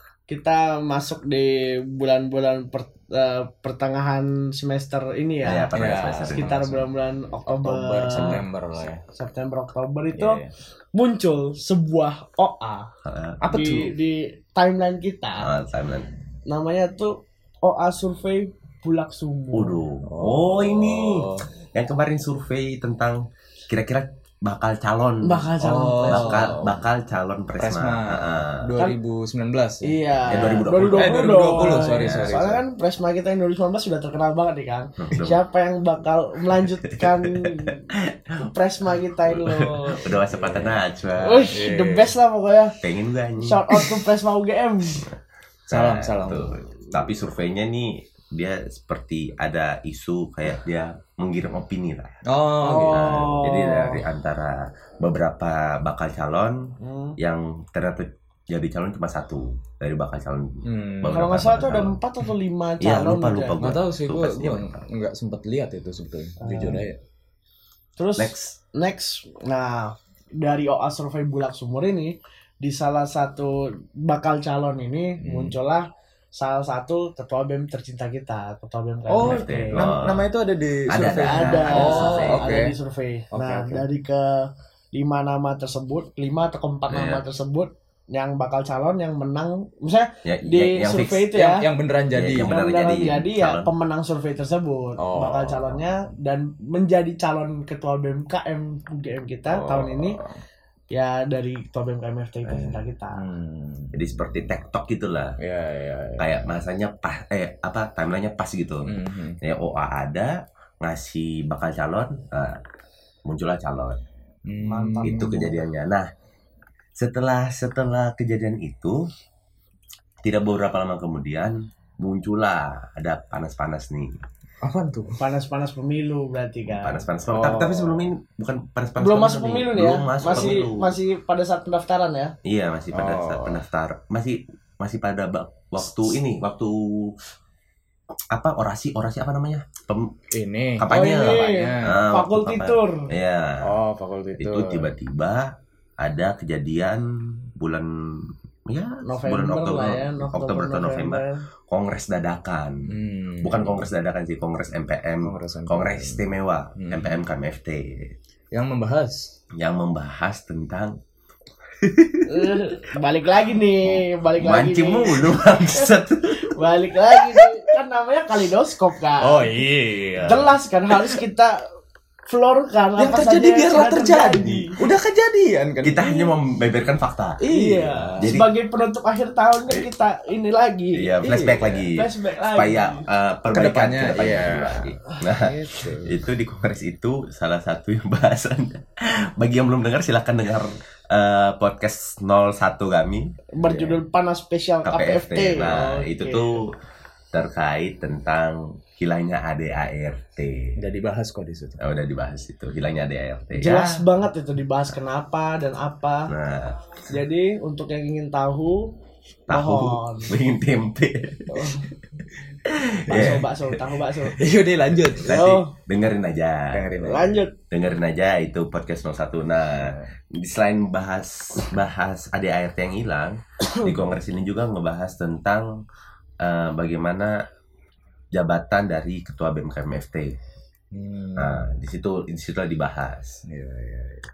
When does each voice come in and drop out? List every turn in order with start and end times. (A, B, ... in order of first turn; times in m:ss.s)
0:00.3-0:05.7 A
0:05.4-0:06.5 B
0:05.7-0:06.9 C
0:06.3-0:08.4 A
0:07.4-0:09.0 C
0:08.2-0:08.4 B
0:09.1-0:10.4 A
0:10.1-0:10.5 C
0:10.9-0:12.9 A
0:13.0-0:13.4 B
0:13.4-0:13.9 C
0:13.5-0:15.5 A
0:15.4-0:16.1 B
0:16.5-0:19.8 A
0:19.5-0:25.5 B
0:20.0-0:21.5 C
0:25.2-0:26.5 A
0:25.6-0:26.8 C
0:26.0-0:28.6 B
0:27.6-0:32.6 C
0:29.8-0:37.8 A
0:30.3-0:32.4 B
0:35.0-0:35.4 B
0:38.0-0:38.4 B
0:38.4-0:40.1 A
0:39.4-0:41.5 B
0:40.2-0:40.8 C
0:41.2-0:42.8 A
0:41.5-0:42.1 C
0:42.8-0:43.8 B
0:43.4-0:45.1 A
0:45.7-0:46.6 C
0:45.7-0:52.1 B
0:52.2-0:53.4 C
0:52.6-0:54.0 A
0:52.9-1:02.0 B
0:56.8-0:57.2 A
1:00.6-1:01.3 C
1:01.1-1:03.6 A
1:02.8-1:04.8 B
1:03.6-1:07.0 C
1:06.4-1:06.8 A
1:08.0-1:15.8 A
1:08.2-1:08.5 B
1:15.2-1:15.6 C
1:16.3-1:19.8 A
1:19.1-1:22.7 C
1:19.2-1:20.3 B
1:20.9-1:22.5 B
1:21.3-1:31.6 A
1:23.3-1:23.8 C
1:26.9-1:27.2 B
1:30.2-1:31.3 B
1:31.3-1:32.5 C
1:32.1-1:33.7 B
1:32.4-1:40.2 A
1:35.0-1:35.9 C
1:39.5-1:40.4 C
1:40.9-1:43.2 A
1:42.5-1:44.5 C
1:43.9-1:45.4 B
1:45.4-1:46.5 C
1:46.2-1:52.6 B
1:48.8-1:49.4 C
1:53.2-1:54.0 B
1:54.5-1:55.6 C
1:54.6-1:55.4 A
1:55.0-1:56.1 B
1:57.0-1:59.1 B
2:00.2-2:04.2 B
2:04.6-2:05.2 C
2:05.2-2:07.0 A
2:06.7-2:10.9 B
2:07.3-2:08.1 C
2:09.0-2:12.3 A
2:12.4-2:17.1 B
2:12.9-2:13.6 C
2:18.3-2:20.1 B
2:20.3-2:22.0 C
2:20.8-2:23.6 B
2:20.9-2:23.1 A
2:23.6-2:24.9 C
2:24.4-2:32.9 B
2:29.0-2:31.4 A
2:32.9-2:33.9 C
2:33.4-2:38.1 B
2:35.2-2:37.2 C
2:38.5-2:39.3 C
2:39.6-2:40.9 B
2:41.8-2:42.6 B
2:42.3-2:45.9 A
2:44.4-2:46.6 B
2:46.5-2:49.5 A
2:47.1-2:47.5 B
2:49.2-2:50.6 C
2:50.2-2:51.6 A
2:52.3-2:54.7 A
2:53.0-2:56.0 C
2:55.8-2:57.4 B
2:56.0-2:56.3 A
2:57.4-2:58.4 C
2:57.5-3:03.0 A
2:58.2-2:58.5 B
3:01.0-3:14.0 B
3:01.2-3:01.8 C
3:03.5-3:04.9 C
3:05.1-3:06.0 A
3:05.7-3:06.1 C
3:13.5-3:16.6 A
3:14.8-3:16.6 B
3:17.3-3:20.7 B
3:20.8-3:21.8 C
3:21.8-3:24.0 B
3:23.6-3:26.3 A
3:26.3-3:27.0 B
3:27.1-3:28.9 A
3:29.5-3:31.8 B
3:29.5-3:30.3 A
3:31.5-3:31.9 A
3:32.7-3:33.8 B
3:33.1-3:34.4 A
3:33.1-3:33.4 C
3:34.3-3:35.6 C
3:35.2-3:45.7 B
3:35.3-3:35.7 A
3:36.7-3:37.4 C
3:37.0-3:37.5 A
3:39.7-3:40.1 C
3:43.6-3:44.0 A
3:46.4-3:47.4 B
3:48.3-3:50.4 B
3:50.9-3:51.7 C
3:51.4-3:53.4 B
3:53.4-3:54.2 C